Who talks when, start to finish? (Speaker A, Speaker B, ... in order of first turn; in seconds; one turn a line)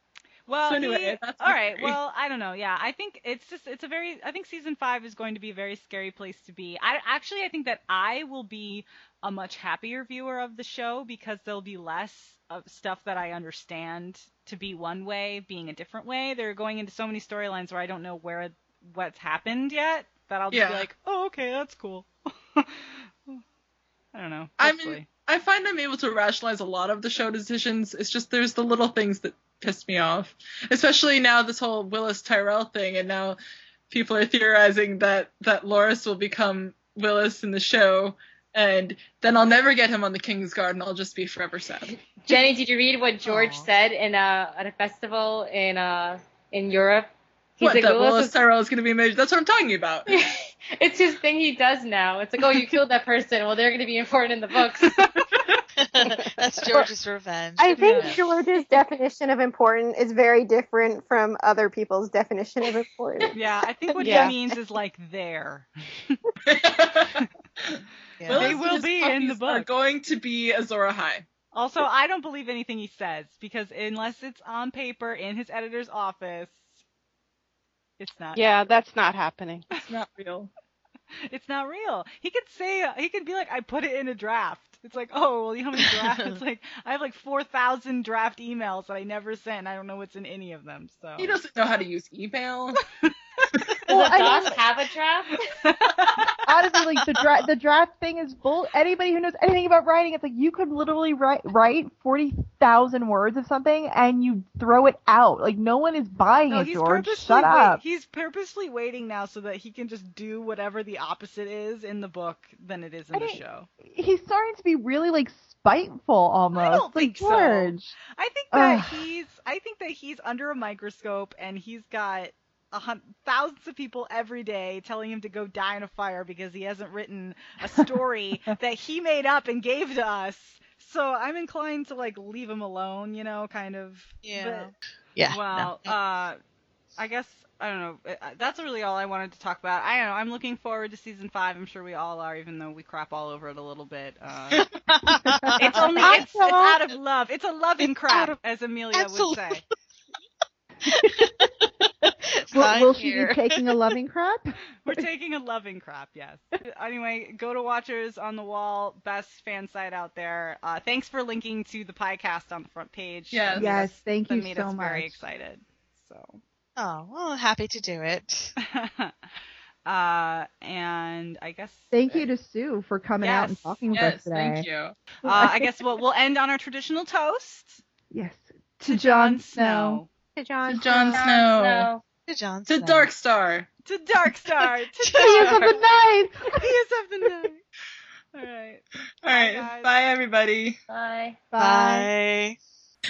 Speaker A: 0.5-23.4
Speaker B: 0.6-2.0
Speaker B: 20.5-20.9
Speaker A: 24.1-25.1
Speaker B: 24.6-33.4
Speaker B: 33.9-42.1
Speaker C: 42.2-48.3
Speaker D: 43.3-43.7
Speaker B: 47.6-50.1
Speaker C: 50.1-54.9
Speaker A: 54.9-55.6
Speaker D: 55.8-58.2
Speaker E: 56.0-56.8
Speaker F: 57.6-63.3
Speaker A: 57.8-58.2
Speaker A: 63.3-66.2
Speaker E: 64.0-64.4
Speaker B: 66.4-71.3
Speaker D: 68.2-68.6
Speaker A: 68.3-69.7
Speaker A: 71.5-76.8
Speaker A: 78.0-78.6
Speaker E: 78.3-79.7
Speaker B: 79.7-80.5
Speaker A: 81.3-91.4
Speaker D: 86.1-86.4
Speaker B: 91.2-92.8
Speaker G: 93.9-94.6
Speaker C: 93.9-95.4
Speaker A: 95.6-96.3
Speaker G: 96.5-107.8
Speaker A: 106.5-113.7
Speaker G: 113.1-117.9
Speaker A: 116.5-134.7
Speaker G: 118.5-119.1
Speaker D: 134.2-135.9
Speaker A: 135.3-136.4
Speaker A: 137.0-144.6
Speaker D: 144.6-146.2
Speaker G: 145.1-146.8
Speaker A: 145.6-149.6
Speaker D: 147.8-148.4
Speaker D: 148.9-149.7
Speaker D: 150.8-151.2
Speaker G: 150.9-151.4
Speaker D: 152.0-153.6
Speaker G: 152.5-155.1
Speaker A: 154.8-166.4
Speaker B: 163.3-163.9
Speaker G: 163.6-165.2
Speaker D: 166.8-168.5
Speaker A: 168.7-169.1
Speaker A: 169.8-172.3
Speaker G: 171.9-174.7
Speaker A: 173.2-173.9
Speaker B: 173.9-174.9
Speaker A: 175.2-177.8
Speaker G: 175.2-175.7
Speaker G: 178.1-180.0
Speaker A: 178.9-180.1
Speaker F: 180.4-181.3
Speaker B: 180.6-181.9
Speaker C: 181.1-182.0
Speaker D: 182.3-183.1
Speaker B: 182.7-183.7
Speaker A: 183.8-185.8
Speaker D: 185.1-185.6
Speaker G: 185.1-186.7
Speaker A: 186.5-187.6
Speaker A: 188.3-189.9
Speaker B: 189.2-190.8
Speaker C: 190.9-191.4
Speaker G: 191.5-192.1
Speaker D: 191.6-192.6